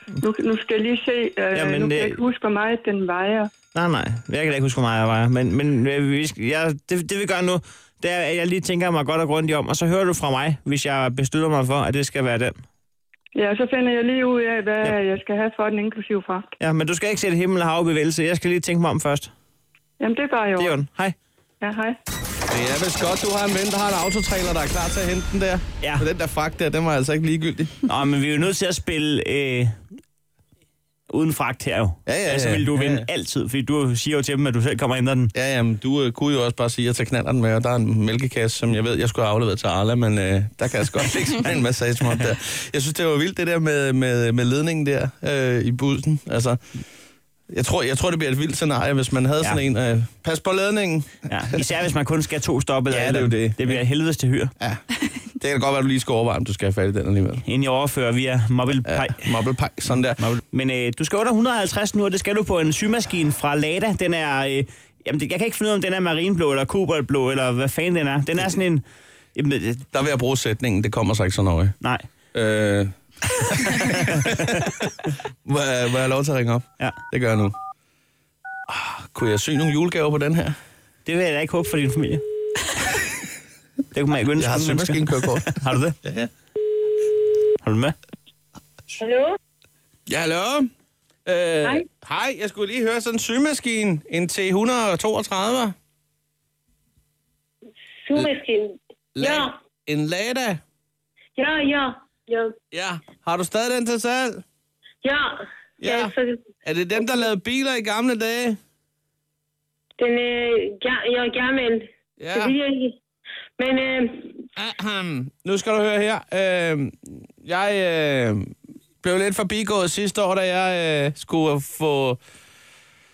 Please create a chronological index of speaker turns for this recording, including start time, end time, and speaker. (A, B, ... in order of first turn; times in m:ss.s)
0:00.2-0:03.5 A
0:01.5-0:02.2 B
0:03.7-0:12.6 B
0:13.3-0:16.5 A
0:16.6-0:19.3 B
0:20.0-0:20.7 A
0:20.6-0:21.2 B
0:21.6-0:22.0 A
0:22.5-0:27.8 C
0:27.9-0:29.8 B
0:31.1-0:35.3 B
0:32.0-0:33.1 C
0:35.3-0:46.6 C
0:47.5-0:51.7 C
0:51.3-0:54.5 B
0:52.9-0:53.8 C
0:54.6-0:57.4 C
0:57.4-0:59.3 B
0:58.8-1:00.2 C
1:00.2-1:08.8 B
1:09.3-1:09.8 B
1:09.9-1:11.8 C
1:11.8-1:12.1 B
1:12.3-1:14.9 C
1:13.6-1:14.5 B
1:15.4-1:17.5 C
1:18.7-1:20.5 C
1:21.0-1:22.2 B
1:23.9-1:26.0 B
1:24.4-1:26.3 C
1:27.6-1:28.0 B
1:29.0-1:29.4 D
1:30.1-1:30.7 C
1:31.2-1:35.7 C
1:38.0-1:39.5 D
1:39.1-1:40.6 C
1:41.4-1:42.5 D
1:42.7-1:44.4 C
1:45.0-1:46.4 D
1:45.8-1:48.6 C
1:50.0-1:53.0 D
1:52.2-1:52.6 C
1:53.6-1:54.4 D
1:54.6-1:58.5 C
1:59.0-2:02.2 C